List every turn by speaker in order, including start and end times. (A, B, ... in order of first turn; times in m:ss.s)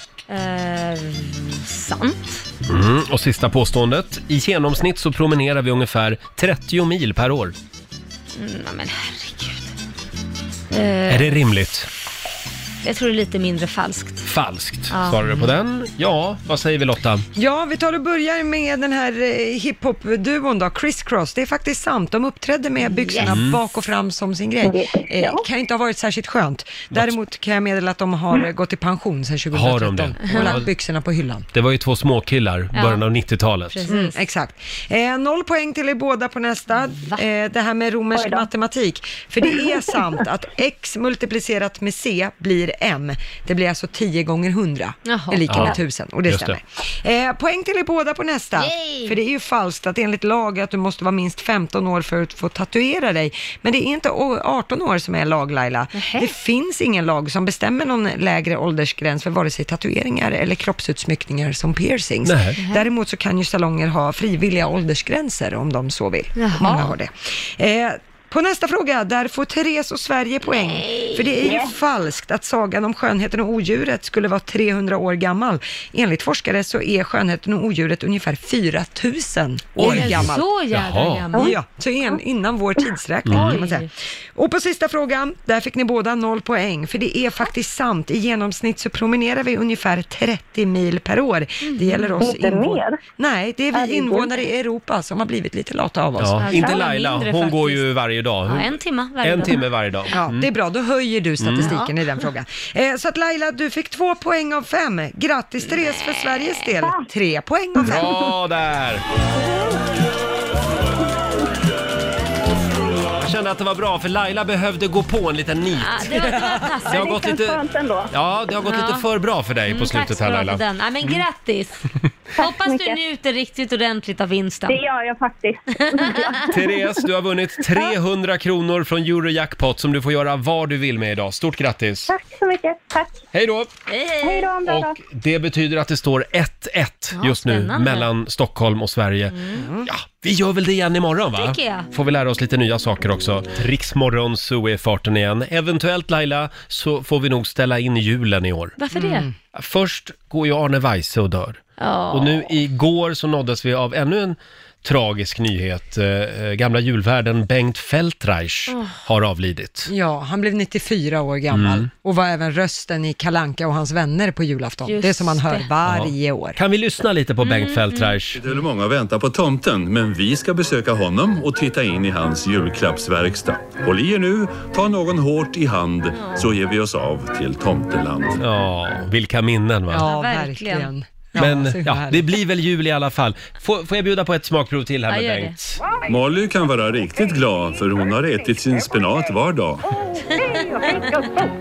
0:00.3-0:02.4 A
0:02.7-0:07.5 B
0:08.4-0:09.7 A
0:10.7-0:11.5 A
0:11.1-0:11.9 B
0:12.8-0:14.2 A
0:14.2-0:17.2 B
0:14.9-0:15.4 A
0:17.4-0:31.5 C
0:22.9-0:23.3 A
0:23.3-0:23.6 B
0:24.6-0:25.4 D
0:29.5-0:30.7 B
0:30.3-0:30.5 A
0:31.5-0:33.8 B
0:32.7-0:33.0 A
0:33.7-0:34.2 A
0:33.9-1:20.5 C
0:38.1-0:38.5 D
0:45.1-0:45.8 A
0:45.5-0:45.8 B
0:46.3-0:46.6 B
0:48.6-0:49.2 A
0:56.0-0:56.3 A
1:02.2-1:02.6 B
1:06.4-1:06.9 A
1:10.7-1:11.2 A
1:19.8-1:21.3 B
1:19.8-1:21.6 A
1:21.3-1:36.5 C
1:23.3-1:23.5 B
1:23.3-1:23.9 A
1:31.6-1:32.2 A
1:32.2-1:33.0 D
1:33.7-1:34.4 D
1:36.2-1:40.5 B
1:36.4-1:37.9 A
1:38.5-1:39.6 A
1:40.1-1:48.2 C
1:41.4-1:41.7 B
1:41.6-1:41.9 A
1:47.8-1:49.0 B
1:53.2-1:56.1 B
1:55.8-1:57.2 A
1:56.9-1:58.1 D
1:56.9-2:01.2 B
1:58.6-1:59.1 A
1:59.7-2:01.9 A
2:02.4-2:03.0 D
2:02.4-2:04.8 A
2:04.7-2:07.1 D
2:05.8-2:06.4 A
2:06.5-2:12.1 B
2:12.1-2:13.2 D
2:13.3-2:13.7 B
2:13.9-2:14.5 A
2:14.2-2:15.0 D
2:14.6-2:28.8 B
2:17.2-2:18.1 A
2:19.3-2:19.7 A
2:19.5-2:19.9 C
2:21.4-2:21.9 A
2:28.8-2:29.3 A
2:28.9-2:29.3 C
2:29.5-2:39.9 B
2:31.8-2:32.5 A
2:38.7-2:39.0 A
2:39.9-2:46.6 C
2:41.5-2:41.9 B
2:44.9-2:45.7 A
2:45.9-2:48.4 B
2:47.4-2:48.2 A
2:48.4-2:58.4 E
2:56.2-2:56.4 A
2:58.4-3:00.1 B
2:59.9-3:02.2 C
3:00.0-3:00.9 A
3:01.4-3:05.8 B
3:05.1-3:05.6 A
3:06.1-3:09.8 E
3:10.4-3:11.0 A